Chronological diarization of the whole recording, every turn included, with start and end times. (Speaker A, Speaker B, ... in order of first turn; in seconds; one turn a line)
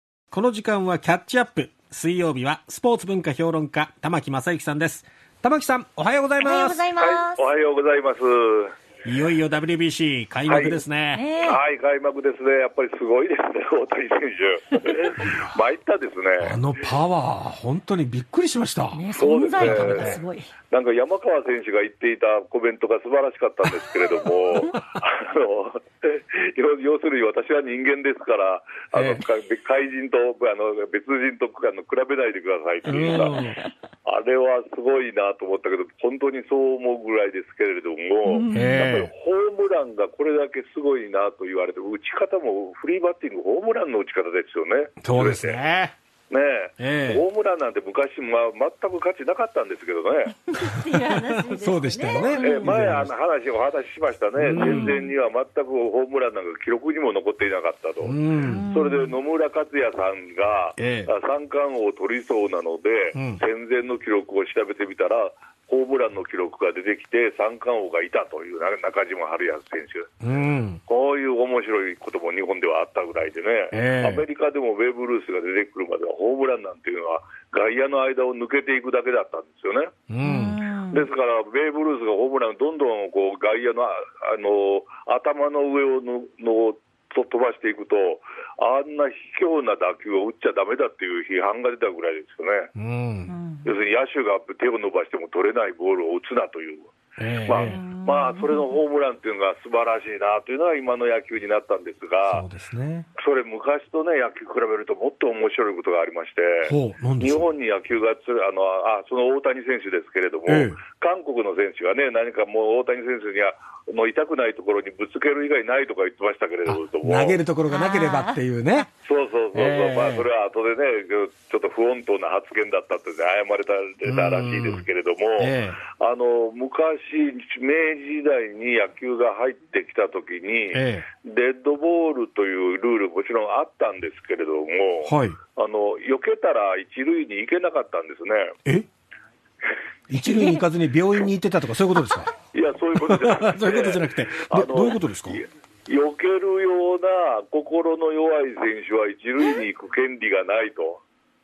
Speaker A: 0.3-6.9
Speaker B: 6.4-7.4
Speaker C: 7.0-8.7
Speaker A: 9.0-11.2
Speaker C: 10.5-10.8
Speaker B: 11.1-11.6
Speaker C: 11.4-16.6
Speaker A: 15.2-15.5
Speaker A: 16.4-20.2
Speaker B: 18.9-20.5
Speaker C: 19.1-33.4
Speaker A: 28.9-29.2
Speaker A: 32.9-33.6
Speaker C: 34.0-45.6
Speaker B: 38.3-38.8
Speaker A: 38.5-39.1
Speaker A: 45.0-45.9
Speaker C: 46.3-50.3
Speaker A: 46.8-47.2
Speaker B: 50.5-52.7
Speaker A: 50.9-53.1
Speaker C: 52.2-58.1
Speaker A: 54.4-55.0
Speaker B: 54.6-55.1
Speaker A: 58.0-58.6
Speaker B: 58.5-59.1
Speaker C: 58.7-70.1
Speaker A: 60.8-61.1
Speaker A: 70.2-70.8
Speaker C: 70.9-79.9
Speaker A: 73.7-74.2
Speaker A: 80.1-80.6
Speaker B: 80.2-81.0
Speaker C: 80.9-92.7
Speaker A: 92.8-93.3
Speaker B: 93.3-93.7
Speaker C: 93.6-96.9
Speaker A: 97.2-97.8
Speaker C: 97.5-102.4
Speaker B: 97.7-98.7
Speaker A: 102.3-103.1
Speaker C: 103.2-117.4
Speaker A: 106.6-107.5
Speaker A: 110.5-110.8
Speaker A: 116.7-118.9
Speaker B: 117.7-118.4
Speaker C: 119.0-138.6
Speaker A: 119.5-120.3
Speaker A: 124.0-124.8
Speaker A: 125.4-125.8
Speaker A: 130.7-131.1
Speaker A: 135.0-135.4
Speaker A: 140.1-142.3
Speaker B: 140.3-140.6
Speaker C: 142.5-151.0
Speaker A: 143.0-145.4